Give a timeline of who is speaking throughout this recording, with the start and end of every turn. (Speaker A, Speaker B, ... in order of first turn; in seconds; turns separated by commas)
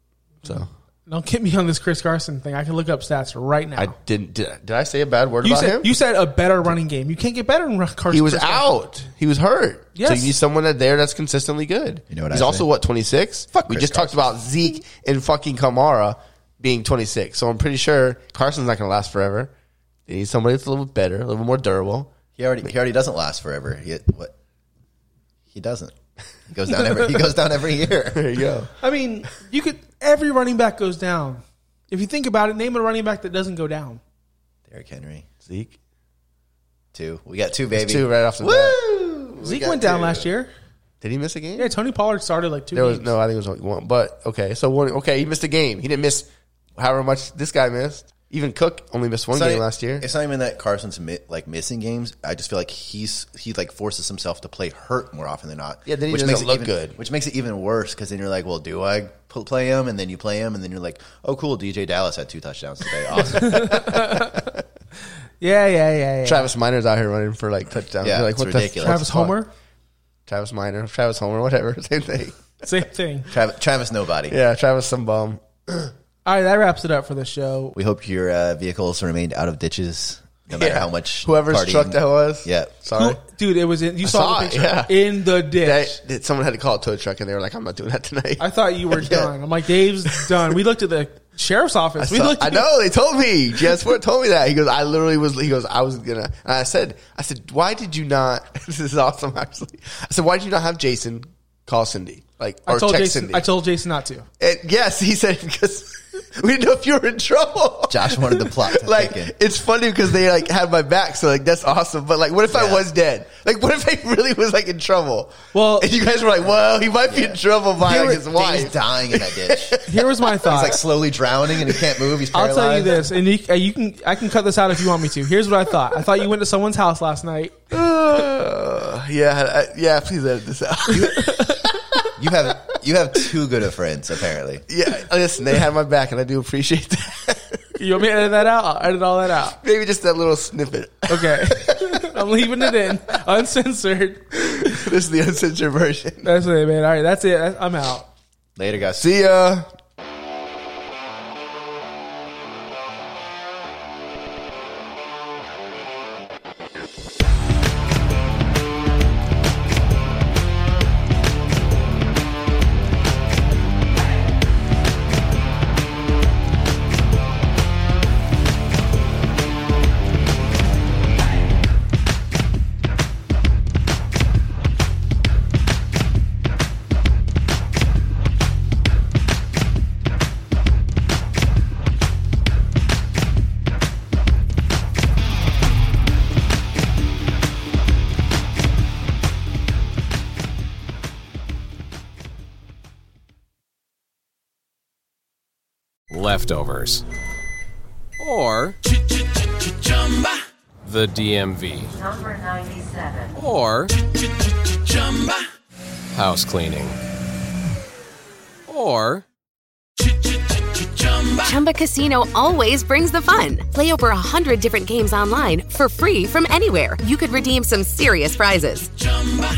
Speaker A: 0.4-0.7, Speaker B: 0.5-3.9, Speaker A: 3.8-5.9, Speaker B: 5.4-8.7, Speaker A: 8.1-19.5, Speaker B: 9.9-10.3, Speaker C: 12.1-12.7, Speaker C: 13.5-14.2, Speaker A: 20.1-22.1, Speaker C: 22.4-24.3, Speaker C: 25.5-25.9, Speaker C: 26.5-28.3, Speaker A: 28.1-28.7, Speaker B: 28.8-34.0, Speaker C: 34.7-35.3, Speaker A: 35.4-35.8, Speaker C: 36.9-40.3, Speaker A: 37.7-38.8, Speaker B: 39.4-40.5, Speaker A: 41.0-41.7, Speaker B: 41.6-43.1, Speaker A: 42.7-50.0, Speaker C: 49.3-63.8, Speaker A: 55.9-57.0, Speaker A: 63.3-64.6, Speaker B: 63.4-64.3, Speaker B: 65.4-66.5, Speaker A: 66.2-69.3, Speaker C: 68.0-69.3, Speaker B: 68.8-69.5, Speaker A: 70.3-72.4, Speaker B: 72.6-73.3, Speaker C: 73.3-74.3, Speaker A: 74.3-75.9, Speaker B: 76.2-77.8, Speaker C: 77.7-82.8, Speaker A: 80.5-83.2, Speaker B: 83.0-86.0, Speaker A: 84.0-88.5, Speaker B: 88.4-92.7, Speaker C: 89.0-89.3, Speaker A: 90.1-90.5, Speaker A: 92.0-103.5, Speaker B: 102.7-104.3, Speaker A: 104.4-120.1, Speaker C: 107.9-109.3, Speaker C: 112.5-112.9, Speaker B: 115.5-115.9, Speaker C: 117.1-119.8, Speaker B: 119.8-120.8, Speaker C: 120.5-123.0, Speaker B: 122.3-127.7, Speaker A: 127.7-132.0, Speaker B: 131.2-131.6, Speaker C: 132.2-134.6, Speaker A: 134.7-137.7, Speaker B: 137.8-139.6, Speaker A: 139.6-142.1, Speaker B: 141.1-144.8, Speaker A: 144.3-146.3, Speaker B: 146.2-148.1, Speaker C: 148.6-149.0, Speaker A: 149.0-149.7, Speaker D: 196.1-197.0, Speaker D: 198.2-198.8, Speaker D: 200.8-202.0, Speaker E: 202.2-203.2, Speaker D: 203.3-203.9, Speaker D: 206.1-207.0, Speaker D: 208.7-209.2, Speaker E: 211.4-218.9